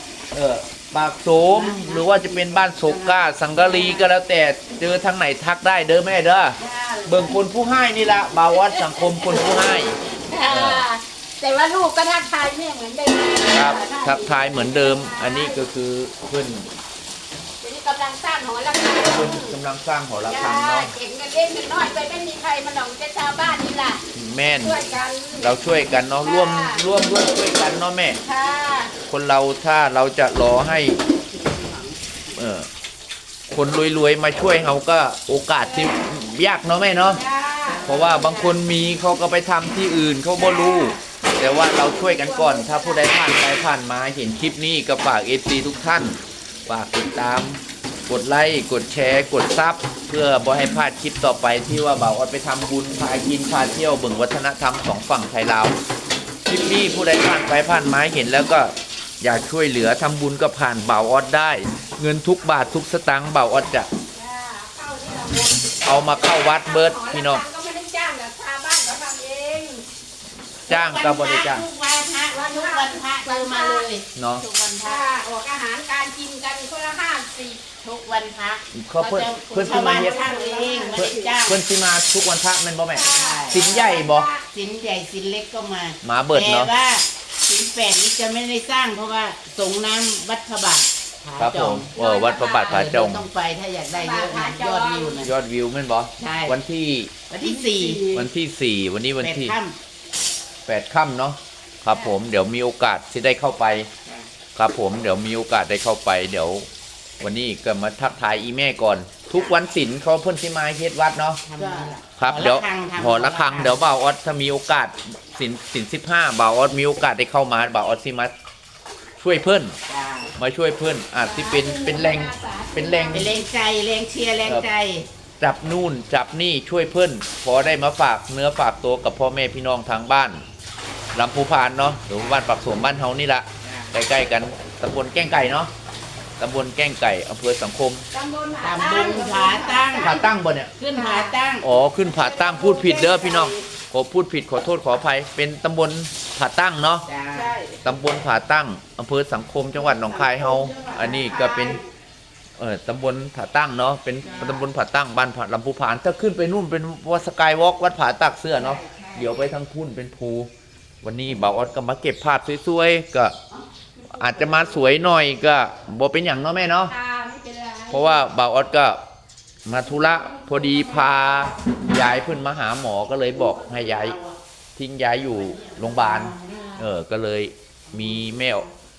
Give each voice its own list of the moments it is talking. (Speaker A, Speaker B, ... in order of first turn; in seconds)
Speaker A: 0.3-10.9, 13.5-16.7, 19.0-20.9, 24.1-24.8, 25.4-28.2, 29.1-31.0, 32.3-32.7, 33.5-37.2, 37.8-55.7, 56.5-63.9, 65.8-67.4, 70.7-71.7, 74.2-74.4, 78.7-80.2, 80.9-84.3, 86.0-86.7, 91.4-93.3, 95.2-97.1, 98.1-99.6, 100.7-103.9, 104.5-106.7, 107.2-111.4, 112.2-118.3, 119.2-119.8, 120.4-123.3, 125.4-130.4, 131.1-135.7, 136.4-138.1, 140.0-140.7, 141.6-147.1, 147.8-151.8, 152.6-160.5, 161.0-163.4, 164.1-166.9, 167.9-169.0, 169.7-174.2, 174.8-178.7
Speaker B: 1.4-3.4, 6.6-7.4, 31.0-32.1, 37.7-38.3, 70.7-75.1, 77.8-81.6, 83.1-83.9, 84.5-91.9, 92.5-95.3, 96.2-96.6, 97.3-98.1, 99.2-99.8, 111.5-113.8, 119.9-120.3, 123.1-125.1, 133.6-133.9, 138.6-140.2, 140.8-143.7, 147.1-147.8, 149.7-151.8, 154.2-154.7, 158.6-159.4, 173.3-174.4, 175.5-176.6
Speaker C: 3.8-4.1, 8.6-9.5, 10.0-15.6, 17.6-19.6, 20.2-24.0, 24.6-25.6, 26.2-26.9, 28.2-28.9, 35.6-36.0, 37.1-38.6, 40.4-41.0, 41.7-43.4, 64.1-69.8, 72.3-73.9, 74.8-77.6, 79.6-81.3, 82.9-84.5, 91.9-92.8, 93.9-95.3, 97.4-98.3, 101.9-102.2, 111.6-111.9, 121.2-123.5, 138.1-140.3, 140.9-141.4, 166.9-168.3, 170.2-171.2, 176.1-176.8